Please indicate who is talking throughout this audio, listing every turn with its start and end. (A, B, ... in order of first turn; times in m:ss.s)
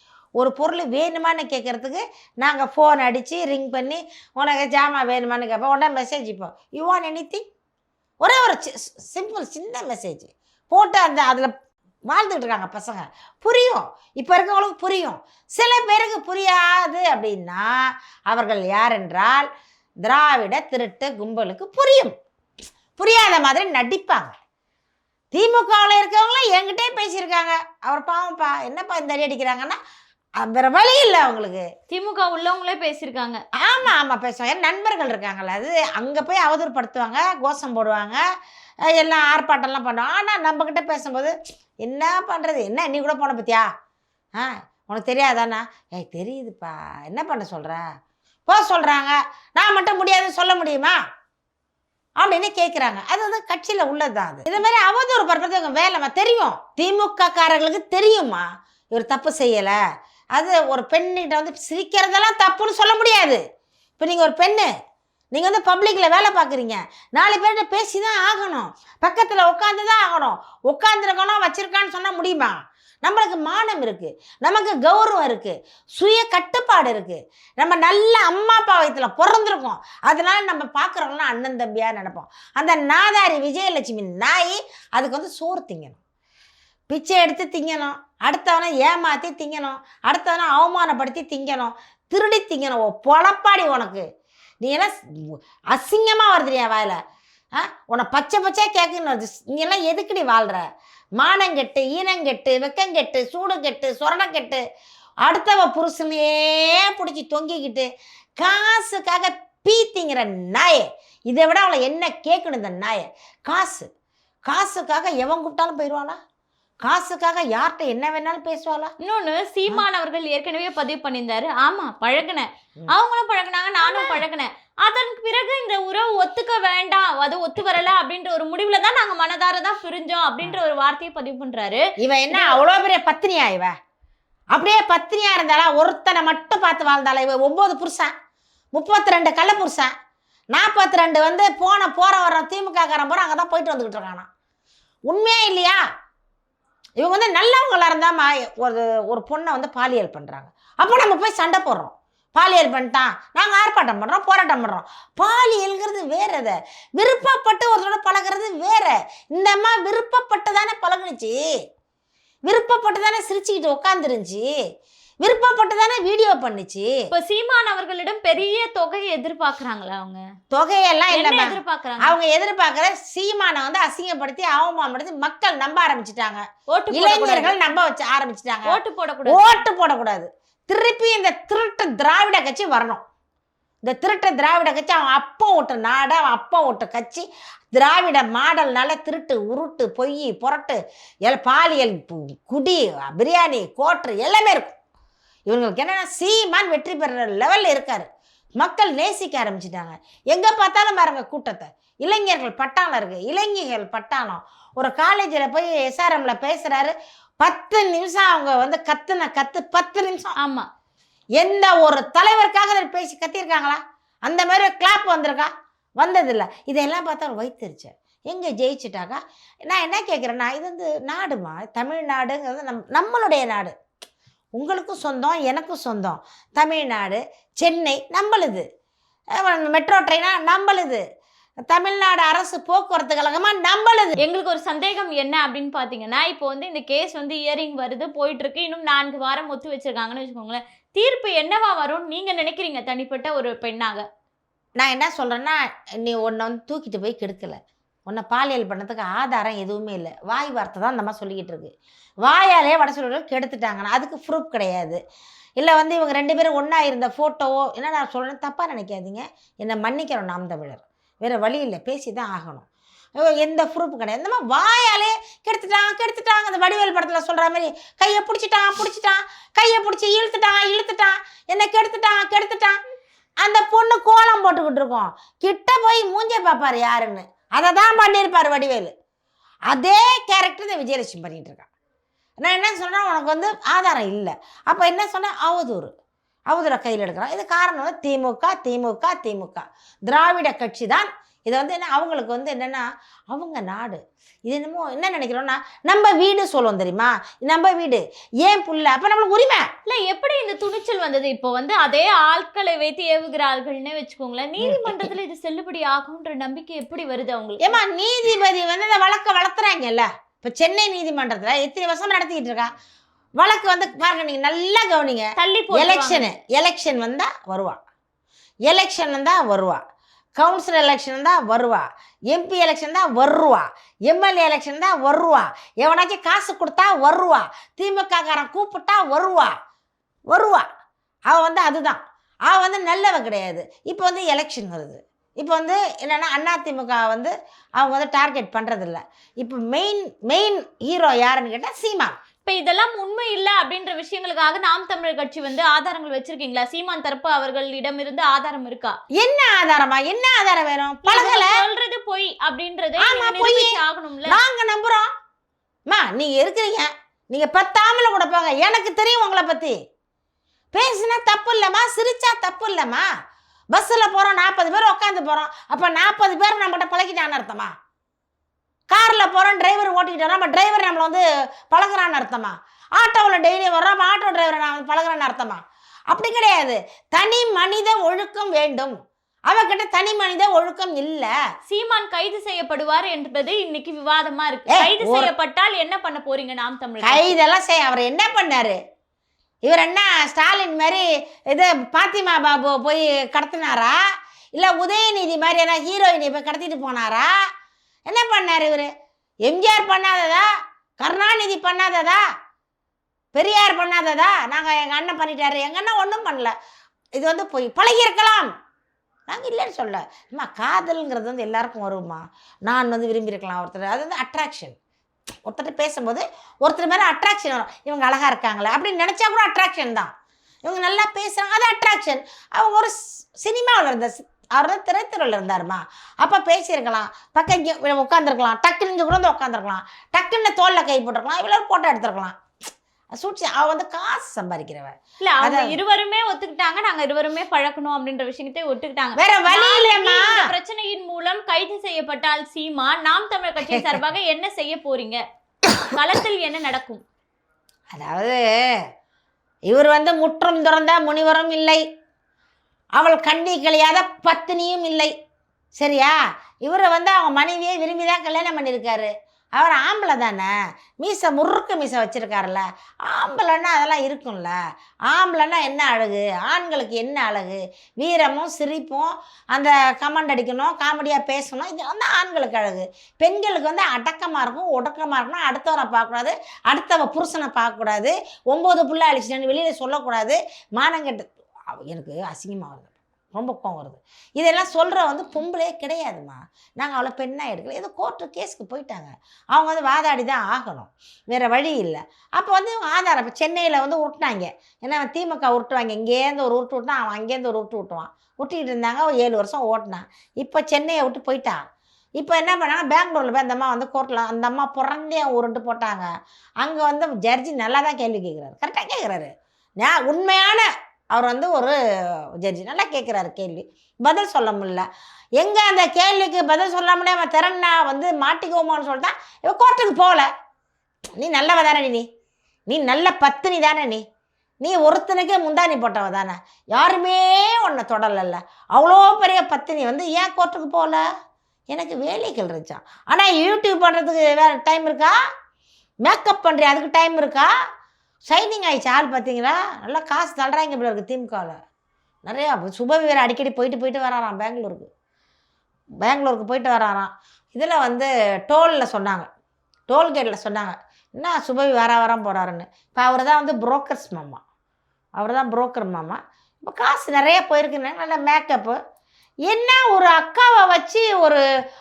0:00.4-0:07.4 A
0:08.2-0:11.5 A
0:12.1-0:17.7 A
0:18.3-0:19.5 A
0:20.0-0:22.1 A
0:23.0-0:24.3 A
0:25.3-0:29.8 A
0:30.4-0:31.7 A
0:31.9-0:33.4 B
0:33.6-0:38.2 A
0:38.9-0:43.7 A
0:44.4-0:47.8 A
0:48.5-0:51.0 A
0:52.2-0:59.8 A
1:00.4-1:03.4 A
1:04.0-1:04.7 A
1:05.3-1:26.0 A
1:26.9-1:34.0 A
1:34.6-1:37.0 A
1:37.6-1:40.7 A
1:41.2-1:44.6 A
1:45.2-1:47.9 A
1:48.4-1:53.9 A
1:54.5-1:56.2 A
1:56.8-1:58.9 A
1:59.0-2:12.6 B
2:03.9-2:04.2 A
2:12.0-2:13.7 A
2:14.5-2:18.1 A
2:18.7-2:19.9 A
2:20.5-2:24.3 A
2:25.1-2:25.8 A
2:27.0-2:41.4 A
2:42.5-2:44.5 A
2:45.2-2:47.1 A
2:47.1-2:50.2 B
2:50.5-3:03.0 A
2:51.1-2:52.2 B
2:56.7-2:57.6 B
2:58.7-2:59.6 B
3:03.8-3:14.8 A
3:15.5-3:30.4 A
3:30.4-3:30.7 B
3:31.4-3:43.7 A
3:44.6-3:48.7 A
3:49.4-3:51.0 A
3:51.7-3:54.2 A
3:54.2-4:04.1 B
4:04.8-4:11.7 A
4:12.2-4:15.0 A
4:15.6-4:22.7 A
4:23.2-4:32.8 A
4:33.4-4:38.9 A
4:39.7-4:41.7 A
4:42.4-4:45.9 A
4:46.5-4:59.7 A
4:59.9-5:07.8 B
5:04.6-5:05.1 A
5:07.6-5:12.7 A
5:13.4-5:17.8 A
5:15.4-5:16.3 B
5:18.7-5:19.8 A
5:20.4-5:29.5 A
5:30.3-5:30.7 A
5:31.3-5:42.2 A
5:42.4-5:49.0 B
5:49.2-5:51.6 A
5:51.0-5:54.4 B
5:53.0-5:55.1 A
5:55.9-5:59.8 A
6:00.7-6:03.1 A
6:03.7-6:07.7 A
6:08.9-6:19.0 A
6:19.5-6:21.3 A
6:21.7-6:27.4 B
6:24.7-6:25.3 A
6:27.0-6:28.8 A
6:29.6-6:34.0 A
6:34.5-6:37.3 A
6:38.1-6:38.9 A
6:39.4-6:40.5 A
6:41.0-6:42.2 A
6:43.3-6:46.6 A
6:47.2-6:48.5 A
6:49.3-6:54.8 A
6:55.5-7:00.1 A
7:00.6-7:12.4 A
7:13.2-7:15.8 A
7:15.2-7:25.2 B
7:19.2-7:20.5 A
7:25.9-7:27.0 B
7:27.9-7:28.8 A
7:29.7-7:31.8 A
7:33.0-7:35.1 A
7:35.8-7:40.5 A
7:41.0-7:44.6 A
7:45.1-8:21.6 A
8:22.2-8:26.1 A
8:26.6-8:31.8 A
8:32.4-8:34.9 A
8:35.4-8:40.3 A
8:41.2-8:42.1 A
8:42.7-8:44.0 A
8:44.6-8:51.0 A
8:51.7-8:55.2 A
8:56.0-8:57.5 A
8:58.3-9:01.6 A
9:02.3-9:04.9 A
9:06.0-9:09.3 A
9:09.9-9:14.4 A
9:15.2-9:18.8 A
9:19.5-9:21.4 A